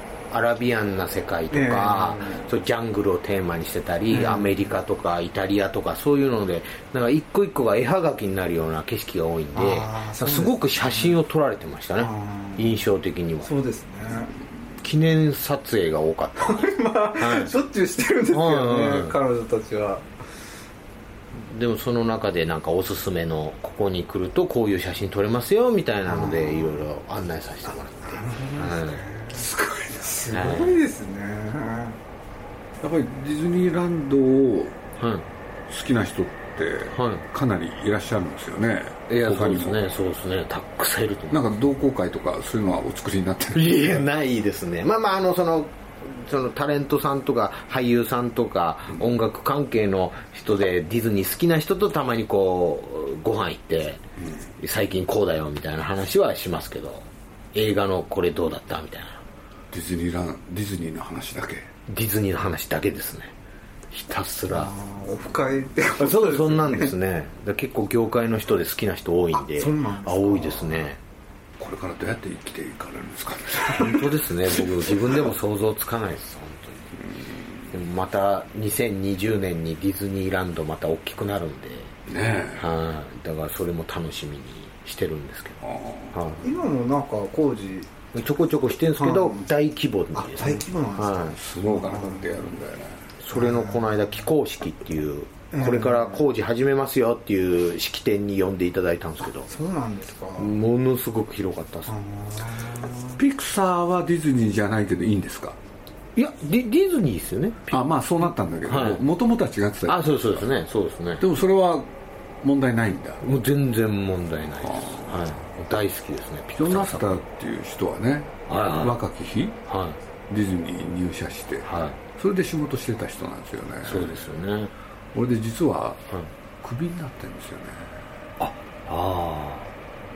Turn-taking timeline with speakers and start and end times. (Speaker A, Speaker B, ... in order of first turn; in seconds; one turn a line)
Speaker A: 0.3-13.5
Speaker B: 1.5-2.5
Speaker B: 4.1-4.6
Speaker B: 9.5-11.2
Speaker B: 12.0-12.8
Speaker B: 13.4-14.3
Speaker A: 14.8-17.5
Speaker B: 16.4-20.1
Speaker A: 18.3-19.1
Speaker A: 21.4-29.1
Speaker B: 26.1-26.8
Speaker B: 28.1-32.0
Speaker A: 30.3-30.8
Speaker C: 32.8-34.8
Speaker A: 35.0-35.2
Speaker C: 35.7-39.9
Speaker A: 36.9-37.2
Speaker A: 39.1-41.5
Speaker C: 41.3-44.0
Speaker A: 43.5-54.0
Speaker A: 54.6-59.2
Speaker C: 59.7-61.7
Speaker A: 61.9-63.3
Speaker A: 63.9-64.7
Speaker B: 64.5-66.9
Speaker A: 66.0-71.0
Speaker B: 69.4-70.9
Speaker C: 71.6-74.0
Speaker A: 73.8-77.0
Speaker A: 77.7-82.0
Speaker C: 82.1-82.7
Speaker A: 82.6-86.5
Speaker C: 85.6-86.2
Speaker B: 86.4-87.9
Speaker A: 88.1-91.4
Speaker B: 89.0-89.5
Speaker B: 90.1-92.4
Speaker C: 91.4-93.0
Speaker A: 93.2-99.5
Speaker B: 93.3-93.8
Speaker B: 95.5-96.2
Speaker B: 99.5-100.5
Speaker A: 100.4-101.9
Speaker B: 101.9-103.2
Speaker C: 103.2-105.6
Speaker A: 106.1-107.8
Speaker C: 107.7-110.5
Speaker A: 108.7-109.0
Speaker A: 109.9-111.2
Speaker C: 111.2-111.9
Speaker C: 112.4-113.2
Speaker A: 113.2-117.2
Speaker C: 114.6-115.2
Speaker C: 116.5-119.6
Speaker A: 118.5-119.0
Speaker A: 119.7-120.0
Speaker C: 120.3-124.3
Speaker A: 121.6-122.0
Speaker A: 123.8-124.7
Speaker C: 125.1-126.0
Speaker C: 126.6-128.0
Speaker A: 128.4-129.7